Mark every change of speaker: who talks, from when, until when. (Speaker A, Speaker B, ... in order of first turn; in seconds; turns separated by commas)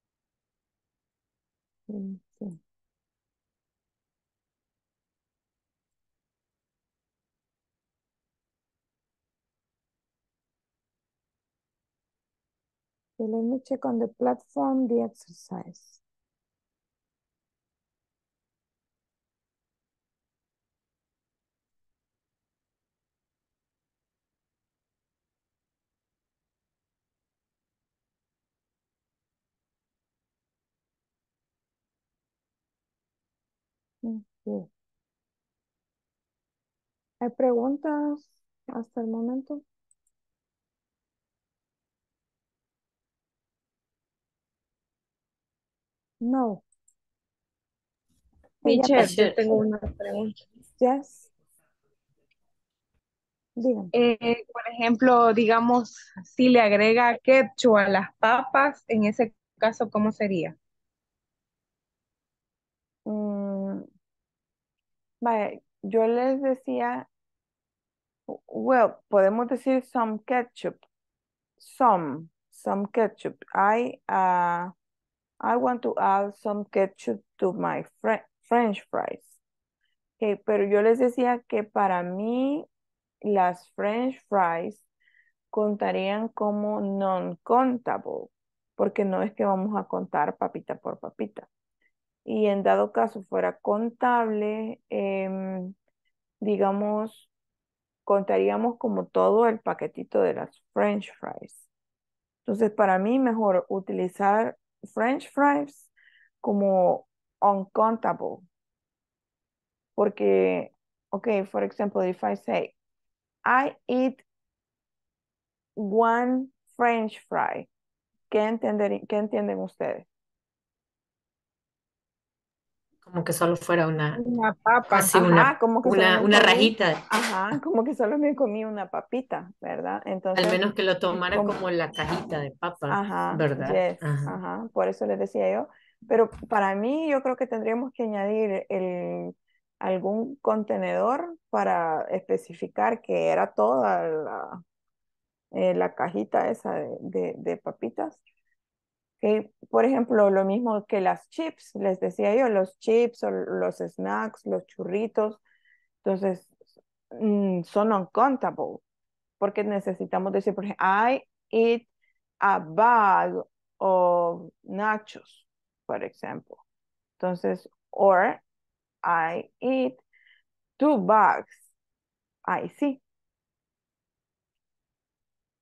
Speaker A: 1.9-2.6, Speaker A: 13.2-16.0, Speaker A: 34.0-34.7, Speaker A: 37.2-39.6, Speaker A: 46.2-46.6, Speaker A: 48.6-49.4, Speaker B: 48.6-50.3, Speaker C: 49.0-49.4, Speaker A: 50.8-51.3, Speaker A: 53.6-53.9, Speaker B: 53.9-60.5, Speaker A: 63.0-63.9, Speaker A: 65.2-67.1, Speaker A: 68.3-70.8, Speaker A: 71.6-74.7, Speaker A: 75.4-79.4, Speaker A: 80.2-82.7, Speaker A: 83.2-84.8, Speaker A: 85.5-91.5, Speaker A: 92.2-95.7, Speaker A: 96.4-97.3, Speaker A: 98.0-101.7, Speaker A: 102.4-105.9, Speaker A: 106.4-108.4, Speaker A: 110.0-112.7, Speaker A: 113.4-114.2, Speaker A: 115.8-117.7, Speaker A: 118.3-120.0, Speaker C: 123.0-124.2, Speaker B: 124.2-125.2, Speaker C: 124.9-127.0, Speaker A: 125.2-131.5, Speaker C: 130.3-134.3, Speaker A: 132.9-144.6, Speaker A: 145.5-148.2, Speaker A: 149.2-155.4, Speaker A: 156.0-156.5, Speaker A: 157.1-158.8, Speaker A: 159.4-161.9, Speaker A: 162.4-166.6, Speaker A: 167.2-168.4, Speaker A: 169.0-170.0, Speaker A: 170.8-171.7, Speaker A: 172.4-173.0